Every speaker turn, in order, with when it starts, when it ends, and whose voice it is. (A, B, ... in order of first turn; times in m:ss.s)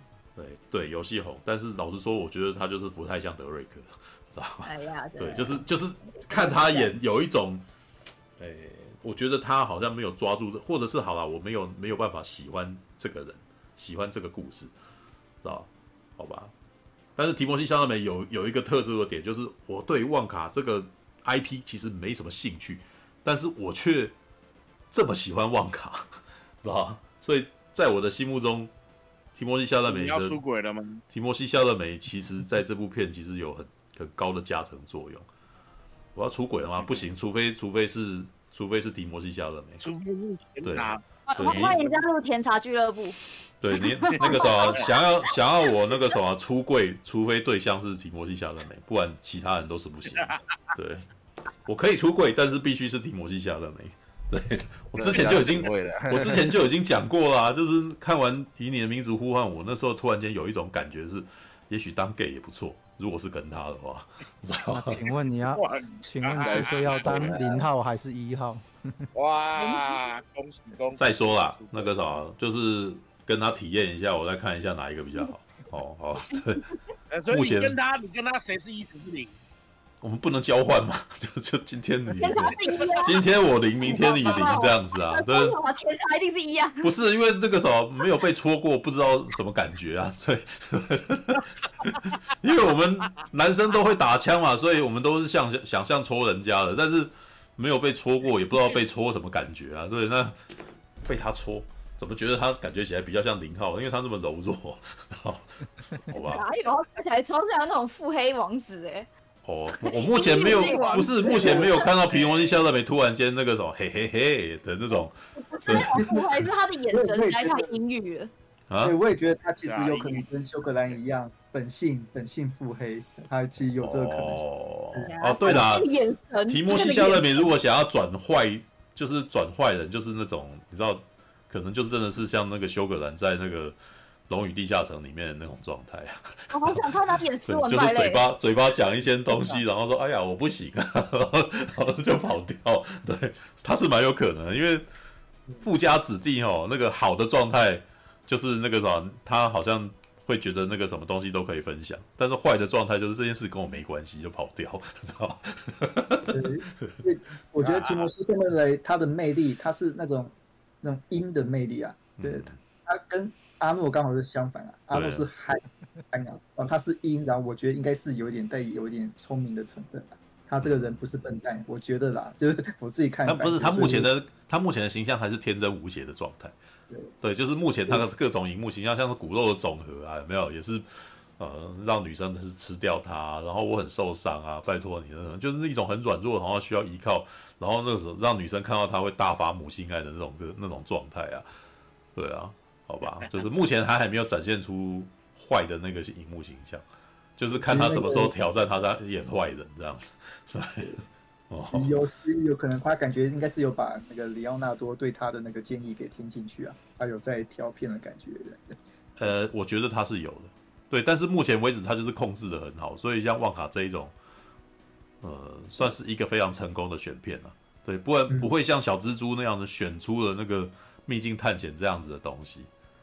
0:00.4-0:07.6 A
0:04.6-0:06.9 B
0:08.4-0:14.7 A
0:15.4-0:16.5 A
0:17.2-0:24.1 A
0:24.9-0:28.7 A
0:29.3-0:30.4 A
0:29.8-0:31.0 C
0:31.1-0:35.3 A
0:36.1-0:39.9 A
0:36.8-0:37.1 C
0:39.8-0:41.8 C
0:40.6-0:41.8 A
0:41.3-0:43.2 B
0:43.6-0:51.0 A
0:43.7-0:45.3 B
0:51.6-1:05.0 A
0:54.9-0:56.4 C
1:04.6-1:09.0 D
1:05.4-1:07.7 C
1:09.1-1:12.0 C
1:09.6-1:09.9 B
1:11.0-1:16.6 A
1:17.1-1:19.4 C
1:17.3-1:17.7 A
1:20.0-1:25.6 A
1:22.2-1:23.2 B
1:23.8-1:26.9 B
1:26.8-1:40.4 A
1:41.0-1:45.5 A
1:46.1-1:46.4 A
1:46.1-1:49.1 B
1:49.4-1:56.5 A
1:49.8-1:51.9 B
1:50.6-1:51.6 E
1:52.1-1:52.5 C
1:55.4-1:58.3 B
1:56.4-1:57.7 E
1:58.8-2:05.6 E
1:59.6-2:00.2 C
2:03.8-2:05.9 A
2:05.1-2:07.5 B
2:06.5-2:13.8 A
2:14.3-2:16.9 A
2:16.5-2:18.2 B
2:17.4-2:24.8 A
2:25.6-2:37.0 A
2:36.3-2:45.6 E
2:37.6-2:38.0 C
2:37.6-2:37.9 A
2:42.2-2:42.6 A
2:44.9-2:45.3 A
2:46.1-2:54.1 E
2:50.6-2:51.1 A
2:53.2-2:56.6 A
2:57.2-3:11.5 A
3:12.1-3:16.8 A
3:17.4-3:21.0 A
3:17.5-3:18.3 E
3:21.5-3:21.9 A
3:21.7-3:28.8 E
3:29.2-3:34.1 A
3:35.2-3:42.7 A